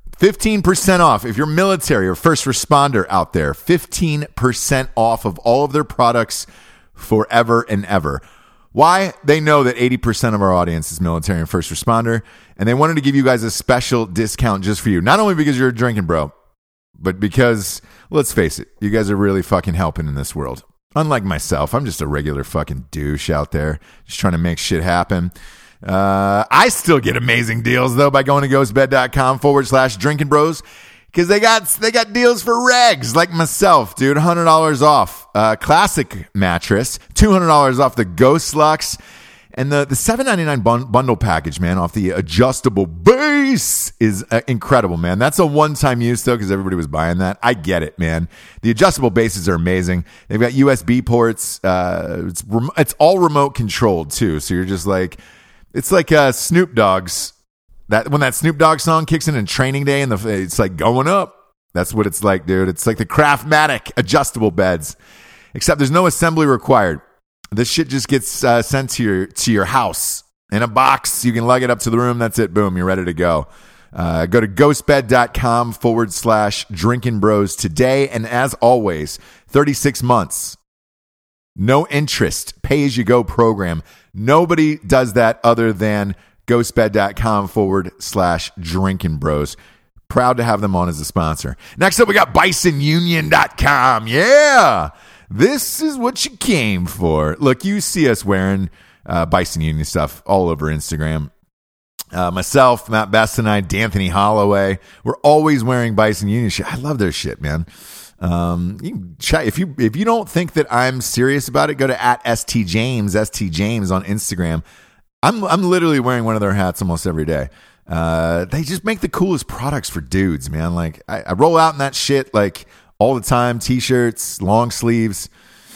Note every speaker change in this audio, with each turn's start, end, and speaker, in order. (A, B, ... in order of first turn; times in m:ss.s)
0:00.2-0:08.2 A
0:08.7-0:16.3 A
0:17.0-0:25.3 A
0:25.8-0:39.0 A
0:39.6-0:55.2 A
0:55.7-0:57.3 A
0:57.9-1:05.0 A
1:05.5-1:07.0 A
1:07.5-1:20.6 A
1:21.6-1:29.6 A
1:30.1-1:41.3 A
1:42.1-1:47.6 A
1:48.2-1:54.6 A
1:55.2-2:05.3 A